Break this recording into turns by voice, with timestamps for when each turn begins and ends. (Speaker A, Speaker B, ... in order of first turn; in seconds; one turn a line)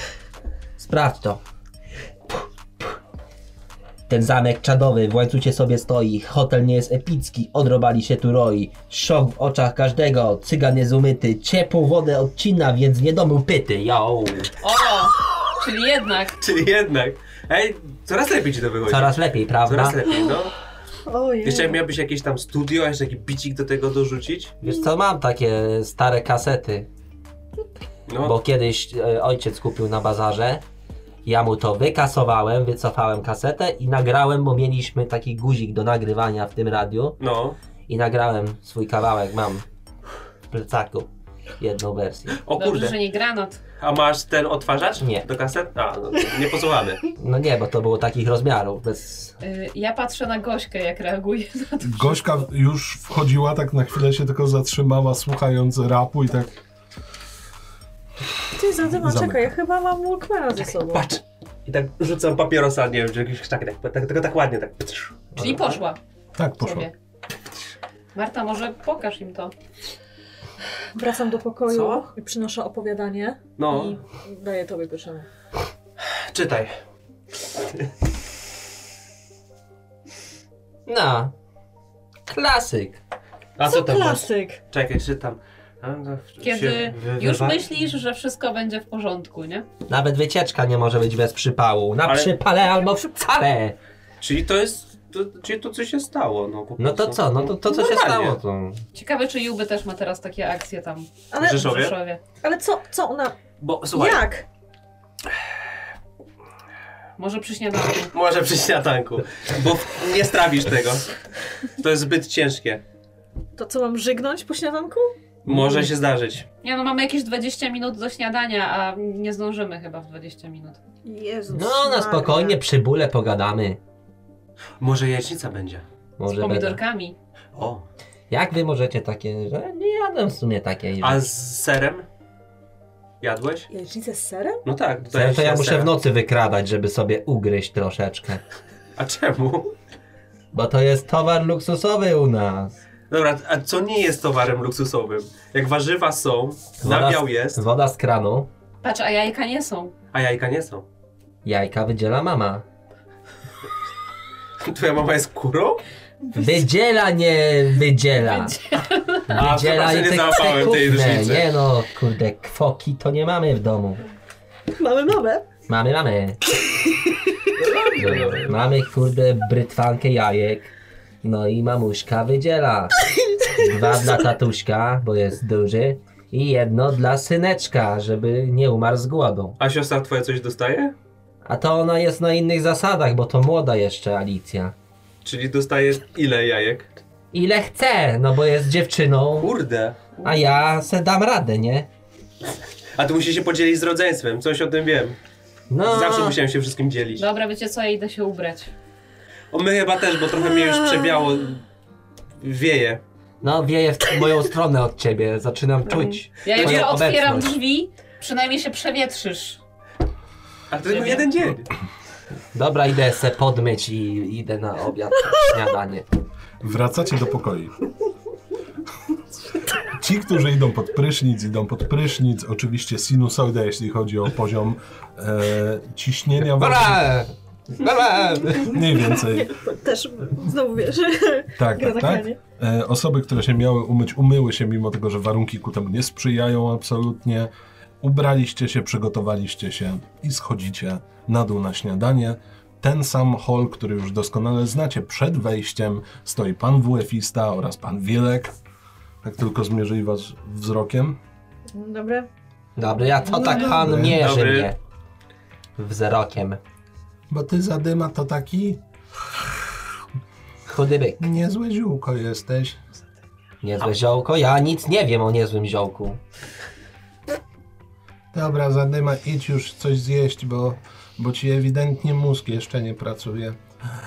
Speaker A: 0.8-1.4
Speaker A: 4.1-14.5
Speaker B: 14.6-16.4
Speaker C: 16.4-20.5
Speaker A: 18.8-20.0
Speaker D: 21.1-21.8
Speaker C: 21.4-24.6
Speaker A: 24.6-26.9
Speaker C: 28.1-28.4
Speaker A: 28.2-30.6
Speaker A: 31.2-37.2
Speaker C: 37.2-37.6
Speaker A: 37.9-39.6
Speaker A: 40.5-41.1
Speaker A: 41.6-42.4
Speaker C: 42.3-43.0
Speaker B: 42.5-43.6
Speaker C: 43.8-47.1
Speaker A: 45.0-45.2
Speaker A: 47.2-49.3
Speaker B: 49.4-52.2
Speaker E: 51.8-56.5
Speaker D: 58.5-61.0
Speaker E: 58.8-59.5
Speaker C: 60.6-65.8
Speaker B: 65.3-66.0
Speaker A: 65.4-65.6
Speaker E: 66.3-66.9
Speaker B: 66.6-66.9
Speaker B: 68.1-69.5
Speaker D: 70.9-75.3
Speaker C: 71.7-72.1
Speaker C: 73.6-74.0
Speaker C: 76.0-76.8
Speaker A: 80.8-81.3
Speaker A: 82.3-83.0
Speaker C: 83.6-87.7
Speaker D: 83.6-84.6
Speaker B: 86.4-89.7
Speaker A: 89.9-93.8
Speaker C: 92.0-92.3
Speaker D: 92.6-93.1
Speaker C: 94.2-98.4
Speaker A: 96.8-98.8
Speaker B: 98.9-102.2
Speaker D: 101.3-101.7
Speaker C: 101.4-101.9
Speaker D: 102.4-103.4
Speaker C: 103.6-104.3
Speaker D: 103.9-104.4
Speaker B: 107.2-108.1
Speaker C: 108.1-111.1
Speaker C: 111.7-112.8
Speaker D: 113.5-115.1
Speaker C: 115.4-116.5
Speaker B: 116.6-120.8
Speaker D: 121.0-122.6
Speaker A: 121.5-123.8
Speaker C: 124.8-125.8
Speaker A: 126.2-126.8
Speaker B: 126.2-127.1
Speaker C: 127.5-127.8
Speaker A: 128.3-131.3
Speaker C: 131.0-132.1
Speaker C: 133.2-133.7
Speaker D: 133.7-134.6
Speaker C: 134.6-135.9
Speaker A: 135.1-138.4
Speaker C: 139.0-139.7
Speaker A: 140.5-142.8
Speaker C: 143.1-147.6
Speaker A: 146.8-148.5
Speaker B: 148.8-149.9
Speaker C: 150.1-150.8
Speaker A: 151.4-152.6
Speaker C: 154.6-155.8
Speaker A: 156.3-158.6
Speaker B: 158.7-159.4
Speaker A: 159.3-164.0
Speaker C: 159.3-161.5
Speaker D: 164.7-165.5
Speaker A: 165.7-166.4
Speaker C: 167.6-168.6
Speaker A: 167.9-170.7
Speaker A: 171.2-172.9
Speaker A: 173.5-179.6
Speaker C: 179.6-180.9
Speaker A: 181.4-184.7
Speaker C: 185.2-186.9
Speaker A: 187.3-189.5
Speaker C: 189.4-190.0
Speaker B: 190.2-190.5
Speaker A: 190.2-191.9
Speaker C: 193.0-195.2
Speaker A: 195.7-196.4
Speaker C: 195.8-197.2
Speaker B: 197.2-198.7
Speaker C: 199.5-201.6
Speaker C: 202.4-203.0
Speaker A: 203.4-207.5
Speaker B: 206.4-209.6
Speaker C: 206.6-206.9
Speaker C: 210.7-211.7
Speaker B: 210.9-211.3
Speaker A: 212.5-216.1
Speaker E: 216.6-217.7
Speaker E: 219.8-227.1
Speaker A: 226.4-228.8
Speaker E: 228.6-229.5
Speaker D: 229.1-232.4
Speaker E: 231.5-248.5
Speaker E: 249.2-251.2
Speaker D: 251.7-252.3
Speaker A: 252.8-254.8
Speaker D: 253.3-253.8
Speaker E: 253.4-254.2
Speaker C: 254.0-254.7
Speaker A: 255.8-256.6
Speaker E: 257.3-258.8
Speaker A: 260.7-261.2
Speaker E: 261.2-262.8
Speaker A: 263.6-266.2
Speaker E: 268.3-273.6